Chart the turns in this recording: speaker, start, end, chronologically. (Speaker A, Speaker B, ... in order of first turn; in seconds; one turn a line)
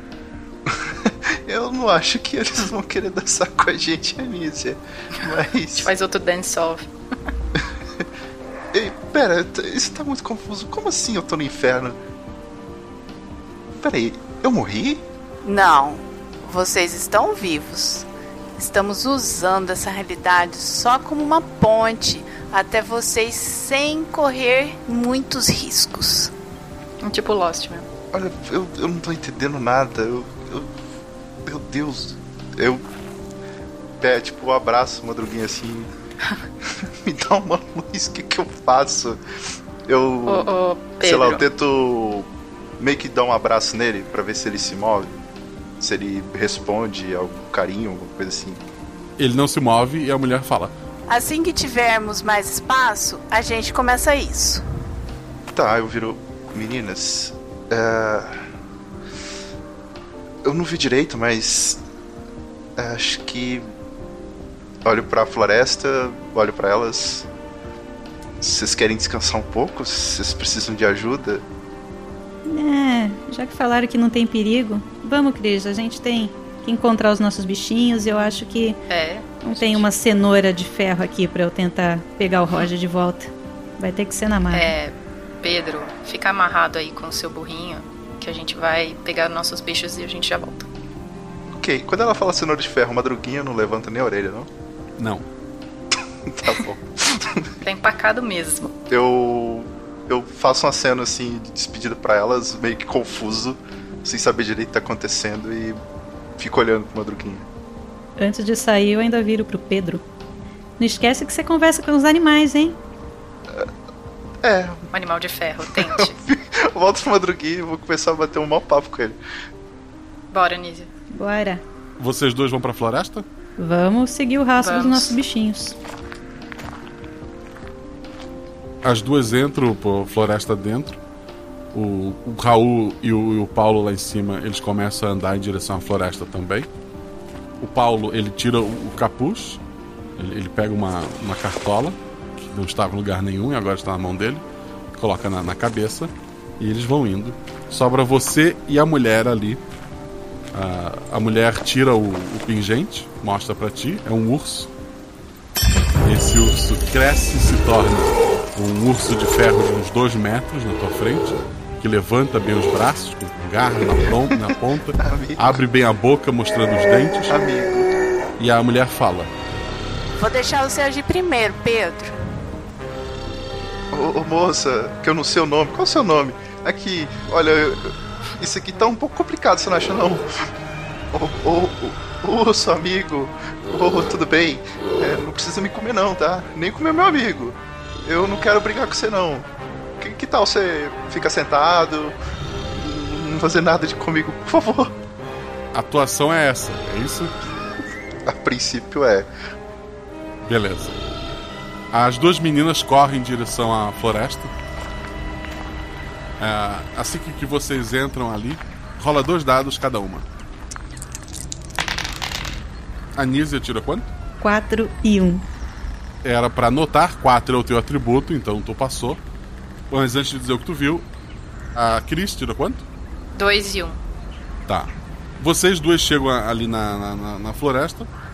Speaker A: 0.7-5.9
Speaker B: 5.8-6.9
Speaker A: 8.7-12.0
Speaker A: 13.8-15.0
Speaker C: 15.4-26.3
Speaker B: 27.0-27.9
Speaker A: 28.1-30.7
Speaker A: 31.4-32.8
Speaker A: 34.0-35.9
Speaker A: 37.1-39.2
Speaker A: 39.9-40.5
Speaker B: 40.2-41.5
Speaker A: 41.0-42.3
Speaker A: 42.8-45.1
Speaker A: 45.8-48.6
Speaker D: 49.2-50.7
Speaker C: 51.1-54.6
Speaker A: 55.5-58.4
Speaker A: 60.5-61.8
Speaker A: 62.8-63.7
Speaker A: 64.8-67.3
Speaker A: 68.4-71.4
Speaker E: 72.5-78.8
Speaker B: 78.9-79.9
Speaker E: 79.4-84.7
Speaker B: 84.5-90.7
Speaker A: 91.5-94.5
Speaker D: 95.0-95.2
Speaker A: 96.3-97.5
Speaker B: 97.6-98.7
Speaker A: 98.9-105.8
Speaker A: 106.4-107.5
Speaker E: 108.2-110.0
Speaker E: 110.8-112.8
Speaker A: 114.4-114.8
Speaker B: 114.9-116.2
Speaker A: 116.0-119.2
Speaker B: 120.3-120.9
Speaker E: 121.1-121.6
Speaker D: 122.0-123.2
Speaker E: 123.6-125.8
Speaker B: 124.6-125.2
Speaker D: 128.8-131.0
Speaker D: 131.7-136.7
Speaker D: 137.6-139.6
Speaker D: 140.2-144.4
Speaker D: 144.9-149.6
Speaker D: 150.5-154.7
Speaker D: 156.0-167.3
Speaker A: 165.0-165.6
Speaker A: 167.3-167.9
Speaker D: 168.4-169.3
Speaker C: 170.2-172.1
Speaker A: 173.9-180.2
Speaker A: 181.1-189.5
Speaker A: 190.0-192.1
Speaker A: 192.8-194.9
Speaker D: 195.7-197.3
Speaker A: 198.2-199.3
Speaker D: 200.5-201.0
Speaker D: 201.9-204.5
Speaker D: 206.4-210.2
Speaker D: 213.2-214.1
Speaker E: 214.4-215.4
Speaker D: 216.2-219.2
Speaker D: 219.9-221.1
Speaker D: 221.8-222.8
Speaker B: 223.4-224.0
Speaker D: 224.7-228.1